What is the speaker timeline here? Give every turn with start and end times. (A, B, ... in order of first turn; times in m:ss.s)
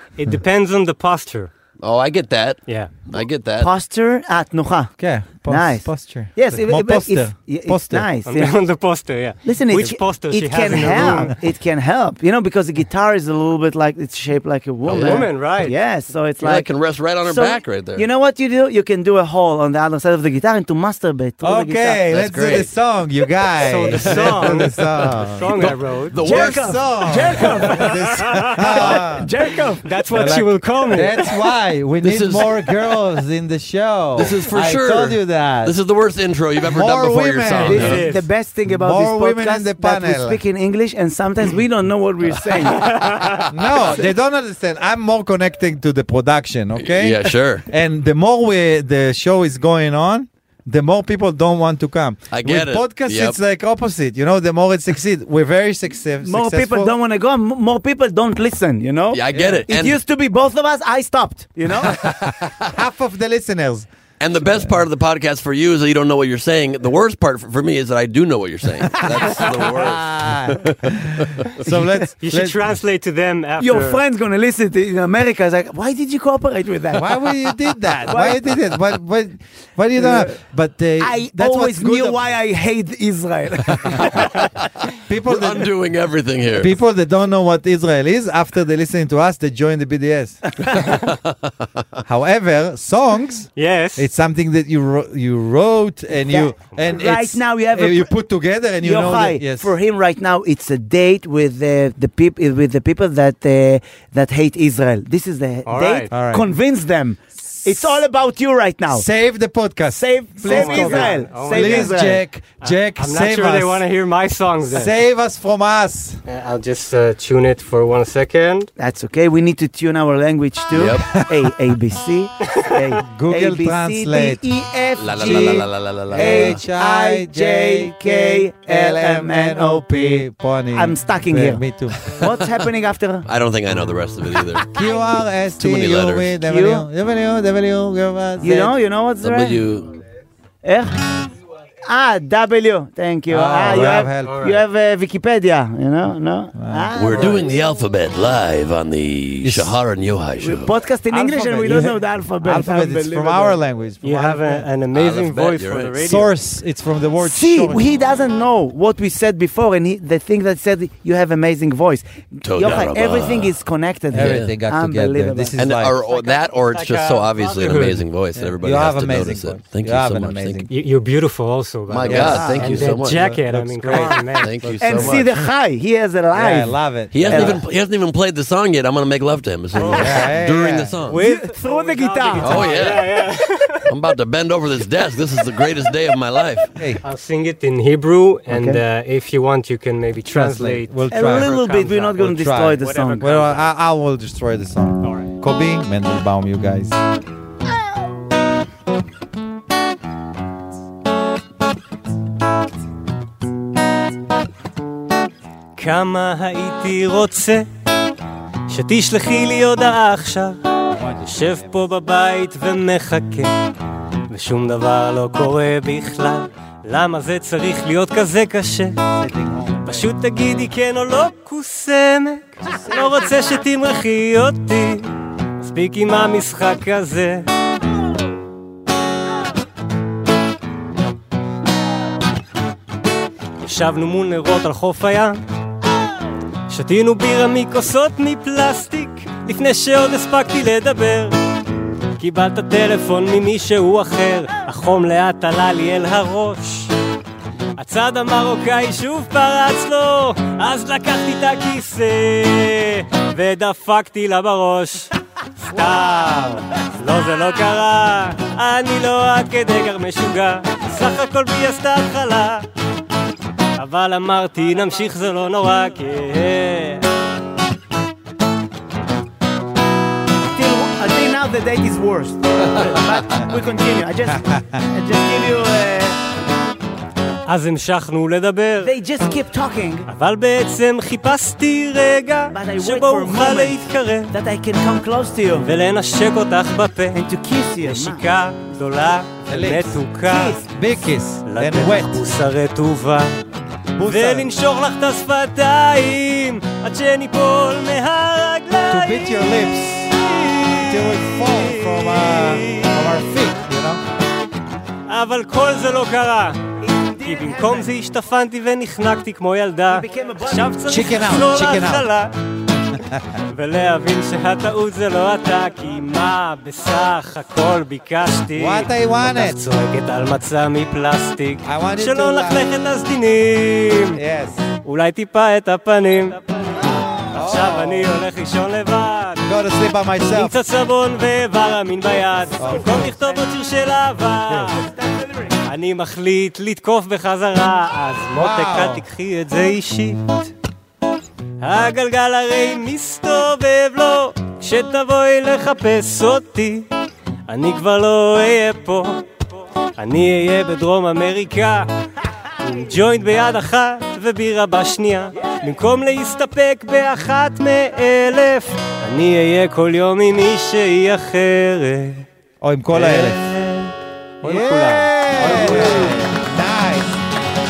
0:00.2-0:01.5 A
0:01.8-0:03.7 B
0:02.7-0:02.9 A
0:03.6-0:08.6 C
0:05.0-0:08.1 D
0:08.3-0:11.4 A
0:09.4-0:22.1 C
0:14.9-0:15.3 B
0:14.9-0:15.8 A
0:16.4-0:18.0 B
0:21.4-0:29.3 D
0:22.1-0:22.7 B
0:23.6-0:26.2 A
0:23.9-0:24.6 B
0:25.5-0:27.8 B
0:26.2-0:29.9 C
0:27.8-0:29.0 A
0:29.8-0:31.4 A
0:30.1-0:35.8 D
0:32.0-0:32.8 B
0:34.2-0:38.1 B
0:36.7-0:38.0 D
0:37.6-0:43.1 C
0:37.8-0:38.3 A
0:38.7-0:40.4 D
0:42.8-0:43.4 A
0:42.8-0:44.0 B
0:43.5-0:56.9 D
0:46.8-0:47.7 B
0:52.3-0:53.4 B
0:56.2-1:02.1 C
0:59.1-1:00.0 B
0:59.3-0:59.6 D
1:01.8-1:02.7 B
1:02.6-1:03.9 D
1:04.2-1:11.5 B
1:09.2-1:12.6 D
1:11.6-1:12.1 C
1:12.2-1:14.0 A
1:13.6-1:17.4 C
1:16.9-1:22.2 D
1:17.9-1:18.6 C
1:20.0-1:20.4 C
1:21.0-1:24.3 C
1:25.0-1:25.7 D
1:25.3-1:26.8 B
1:26.6-1:30.8 D
1:32.1-1:39.7 D
1:33.6-1:34.1 A
1:36.3-1:38.1 C
1:38.8-1:49.1 C
1:45.7-1:46.1 A
1:46.1-1:46.5 D
1:47.6-1:48.0 D
1:48.9-1:53.8 D
1:49.9-1:52.2 C
1:50.4-1:55.0 A
1:54.7-1:56.2 D
1:56.3-1:58.7 A
1:58.8-2:13.3 C
2:00.7-2:01.1 B
2:03.0-2:04.5 D
2:05.0-2:06.6 B
2:05.2-2:12.2 D
2:13.3-2:14.7 B
2:14.7-2:18.8 D
2:15.6-2:16.3 B
2:16.4-2:16.9 C
2:18.4-2:19.6 C
2:19.2-2:20.0 B
2:20.6-2:21.2 C
2:21.8-2:27.5 C
2:23.3-2:24.5 D
2:23.9-2:24.6 A
2:26.6-2:27.2 D
2:27.0-2:30.7 B
2:29.4-2:29.8 D
2:30.4-2:33.6 C
2:31.1-2:34.6 D
2:34.0-2:36.4 A
2:34.9-2:36.1 B
2:36.0-2:37.8 D
2:37.2-2:45.6 C
2:42.4-2:43.5 B
2:44.1-2:46.0 D
2:44.2-2:44.6 B
2:45.6-2:50.7 B
2:46.0-2:48.0 A
2:48.4-2:50.7 D
2:50.7-2:55.2 A
2:51.9-2:53.2 B
2:52.0-2:54.2 D
2:52.2-2:52.8 C
2:53.9-2:55.3 B
2:54.8-2:57.6 C
2:56.3-2:57.6 D
2:57.1-3:01.2 B
2:59.8-3:00.3 A
2:59.9-3:01.0 D
3:01.0-3:03.9 A
3:01.1-3:02.8 C
3:02.4-3:03.1 B
3:03.9-3:06.7 B
3:06.8-3:07.0 D
3:07.0-3:12.2 A
3:08.5-3:08.8 C
3:10.3-3:11.6 D
3:11.1-3:13.3 C
3:12.2-3:17.0 D
3:12.8-3:13.7 A
3:15.0-3:15.3 A
3:25.8-3:27.7 A
3:28.7-3:30.6 A
3:30.9-3:31.9 D
3:31.2-3:33.5 A
3:34.3-3:39.0 A
3:39.1-3:40.1 D
3:39.8-3:45.1 A
3:45.6-3:47.5 A
3:53.6-3:55.4 A
3:56.7-4:01.4 A
4:02.2-4:06.9 A
4:07.8-4:15.1 A
4:15.6-4:22.7 A
4:23.8-4:27.1 A
4:30.6-4:36.2 C
4:37.5-4:38.9 A
4:38.8-4:40.1 C
4:40.1-4:44.4 A
4:42.5-4:45.7 C
4:45.6-4:47.2 A
4:47.1-4:48.2 C
4:47.8-4:50.6 A
4:49.5-4:50.0 D
4:50.3-4:50.6 C
4:50.7-4:52.2 D
4:51.5-4:53.4 A
4:54.0-4:54.5 D
4:54.0-4:59.4 A
4:58.9-5:04.0 D
5:00.0-5:03.2 A
5:05.1-5:12.3 A
5:06.8-5:07.9 C
5:09.9-5:11.2 C
5:10.9-5:12.1 D
5:13.5-5:24.2 A
5:18.6-5:19.6 D
5:21.6-5:22.6 D
5:24.1-5:24.6 D
5:24.8-5:29.4 A
5:27.3-5:28.1 D
5:29.4-5:30.6 D
5:30.3-5:34.9 A
5:32.6-5:33.1 D
5:32.6-5:33.4 C
5:34.6-5:35.5 C
5:35.6-5:40.5 A
5:38.4-5:39.0 D
5:41.6-5:46.9 A
5:47.5-5:49.2 A
5:50.0-5:51.9 A
5:52.6-6:02.3 A
6:02.6-6:03.6 D
6:02.9-6:06.3 A
6:04.4-6:07.2 D